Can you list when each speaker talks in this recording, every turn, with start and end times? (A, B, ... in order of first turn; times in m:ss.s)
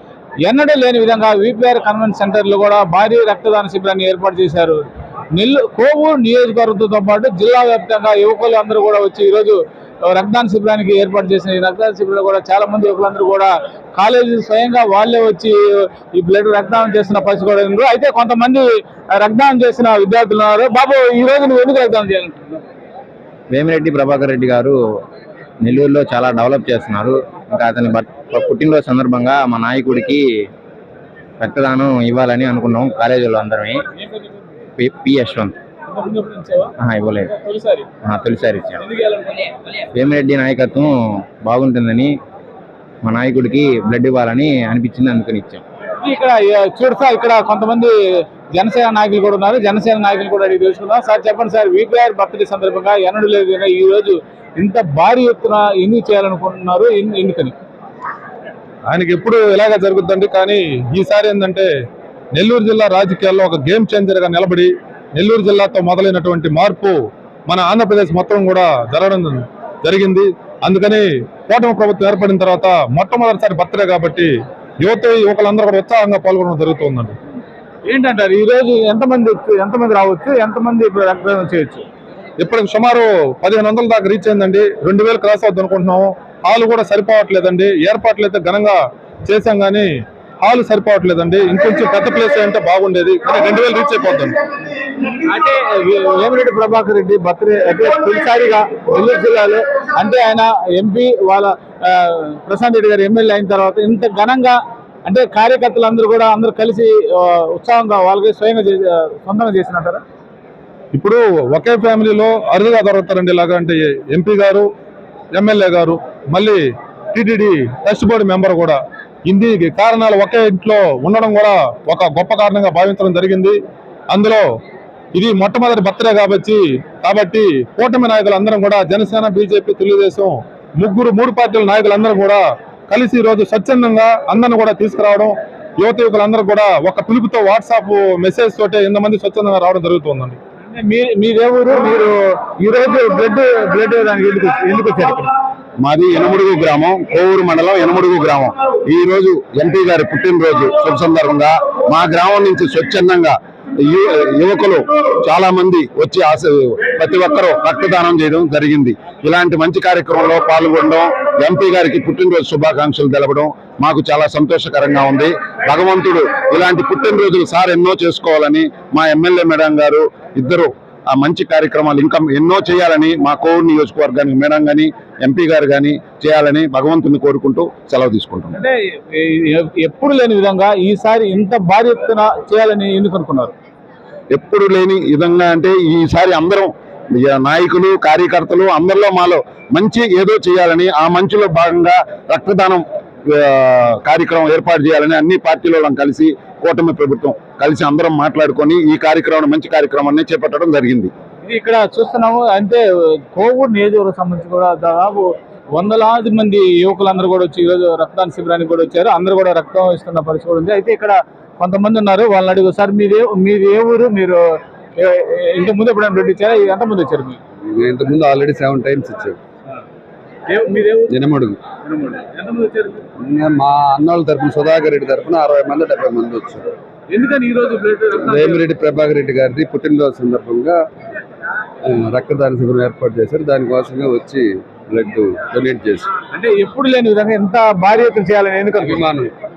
0:00.4-0:22.6 A
0:23.5-0:24.8 B
0:25.6-0:30.5 B
0:31.4-0:33.8 B
0:34.8-0:35.5 B
0:35.9-0:36.7 A
0:36.8-0:37.3 B
0:37.3-0:37.8 A
0:38.0-0:38.8 B
0:38.8-0:39.5 A
0:39.9-0:42.2 B
0:43.0-0:45.6 B
0:46.0-0:47.9 A
0:48.5-0:57.5 A
0:58.9-1:01.7 C
1:02.3-1:17.2 C
1:17.8-1:21.8 A
1:22.4-1:34.4 C
1:35.0-1:50.0 A
1:50.9-1:54.7 C
1:55.3-2:03.6 C
2:04.1-2:04.4 C
2:05.1-2:20.4 C
2:20.6-2:25.3 A
2:25.8-2:58.6 D
2:58.5-3:03.5 A
3:04.3-3:21.1 D
3:21.4-3:37.4 A
3:37.7-3:39.4 E
3:40.5-3:41.2 A
3:41.1-3:41.6 E
3:41.8-3:43.0 A
3:43.2-3:46.7 E
3:47.1-3:48.6 A
3:48.2-3:50.8 E
3:51.8-3:56.1 E
3:56.3-3:59.0 A
3:58.8-3:59.3 E